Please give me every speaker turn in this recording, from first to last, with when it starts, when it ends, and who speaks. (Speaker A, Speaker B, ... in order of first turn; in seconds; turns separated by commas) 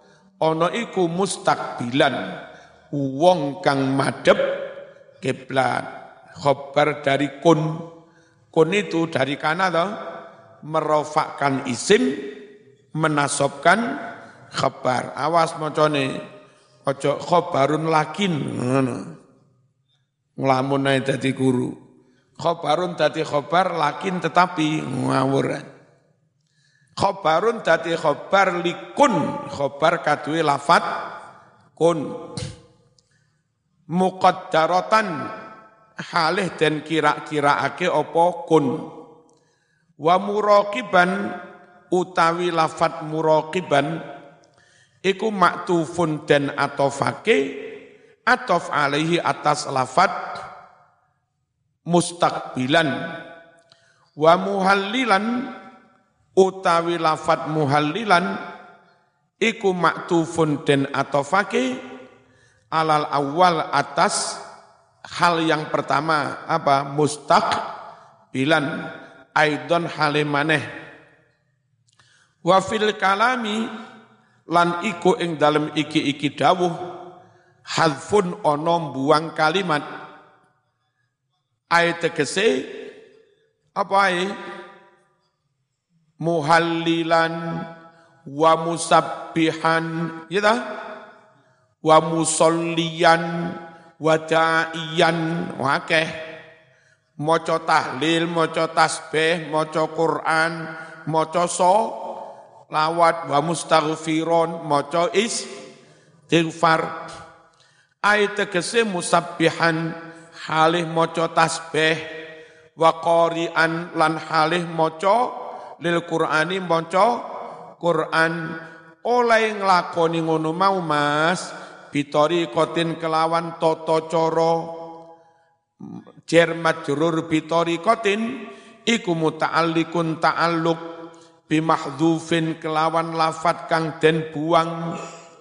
Speaker A: 0.4-2.3, Speaker A: 2.9-4.5, Speaker A: 5.2-7.8, Speaker A: 8.5-9.9, Speaker A: 10.6-12.3, Speaker A: 12.9-13.9, Speaker A: 14.5-16.2, Speaker A: 16.8-19.1, Speaker A: 20.4-21.8, Speaker A: 22.4-25.7, Speaker A: 27.0-31.0, Speaker A: 31.8-32.4, Speaker A: 33.9-35.3, Speaker A: 36.1-38.9, Speaker A: 40.0-41.4, Speaker A: 41.9-44.0, Speaker A: 45.0-50.4, Speaker A: 51.9-53.2, Speaker A: 54.2-55.5, Speaker A: 56.4-58.3, Speaker A: 59.4-61.8, Speaker A: 62.7-64.4, Speaker A: 65.1-67.6, Speaker A: 68.3-70.6, Speaker A: 72.4-73.7, Speaker A: 74.5-76.8, Speaker A: 77.7-79.8, Speaker A: 81.7-82.9, Speaker A: 83.8-84.3, Speaker A: 86.2-87.7, Speaker A: 88.3-90.6, Speaker A: 91.8-96.3, Speaker A: 97.2-105.5, Speaker A: 106.3-107.0, Speaker A: 108.0-112.0, Speaker A: 112.8-117.2, Speaker A: 117.8-124.8, Speaker A: 125.8-130.8, Speaker A: 131.5-135.0